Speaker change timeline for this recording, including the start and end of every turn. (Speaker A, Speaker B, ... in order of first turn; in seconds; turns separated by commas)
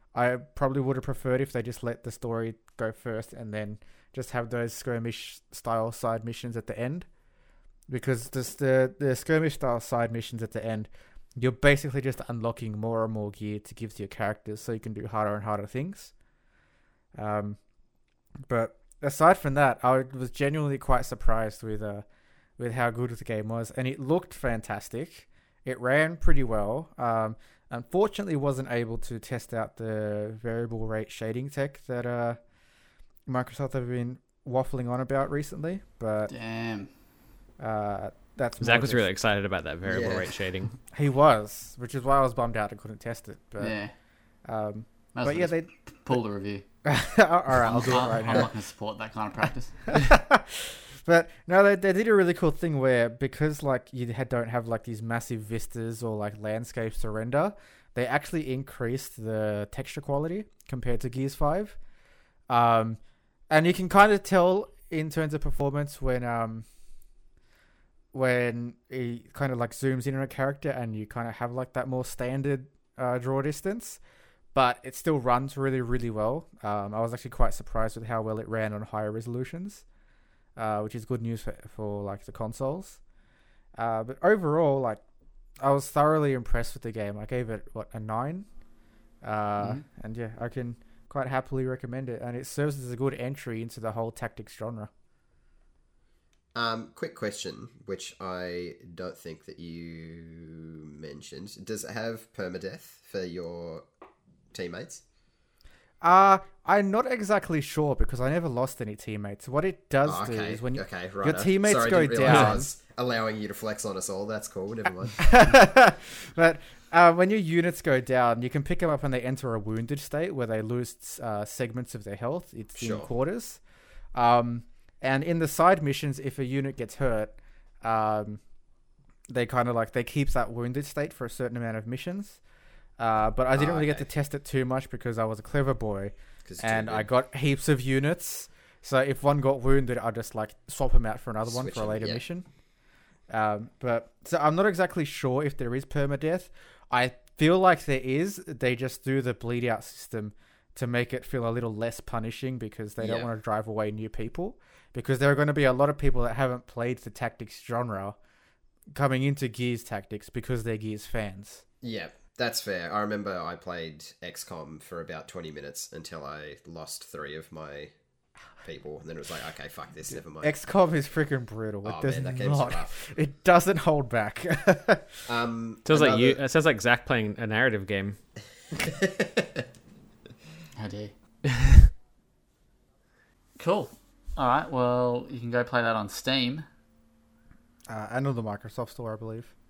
Speaker A: 0.1-7.1, Speaker A: 7.9-16.1, Speaker A: 17.1-17.6, Speaker A: 18.4-22.1, Speaker A: 22.6-32.4, Speaker A: 33.2-36.3, Speaker B: 36.3-36.9, Speaker A: 37.6-39.0, Speaker C: 38.6-40.8, Speaker D: 39.8-40.3, Speaker A: 40.9-43.8, Speaker B: 43.6-43.9, Speaker A: 44.5-45.7, Speaker B: 45.1-46.6, Speaker A: 46.8-48.5, Speaker B: 47.6-50.0, Speaker A: 49.9-61.8, Speaker A: 62.5-66.7, Speaker A: 68.1-74.0, Speaker A: 74.5-79.8, Speaker A: 80.5-83.0, Speaker A: 83.7-85.0, Speaker A: 85.6-88.5, Speaker A: 89.2-94.9, Speaker B: 89.6-89.8, Speaker D: 96.5-103.8, Speaker D: 104.5-105.0, Speaker A: 106.0-112.7, Speaker D: 110.0-115.3, Speaker C: 112.2-112.5, Speaker A: 115.2-123.6, Speaker D: 122.8-123.1, Speaker A: 124.1-128.4, Speaker A: 129.3-132.4, Speaker A: 133.0-142.4, Speaker D: 133.5-134.1, Speaker D: 136.4-137.1, Speaker D: 141.5-142.2, Speaker A: 143.3-158.2, Speaker D: 153.0-153.3, Speaker A: 158.9-161.6, Speaker D: 161.8-167.9, Speaker D: 168.6-170.5, Speaker A: 170.4-175.2, Speaker D: 171.8-173.0, Speaker D: 175.2-176.4, Speaker C: 175.8-178.2, Speaker D: 178.8-179.6, Speaker B: 180.8-181.1, Speaker C: 181.6-181.8, Speaker B: 183.6-186.7, Speaker A: 187.9-189.5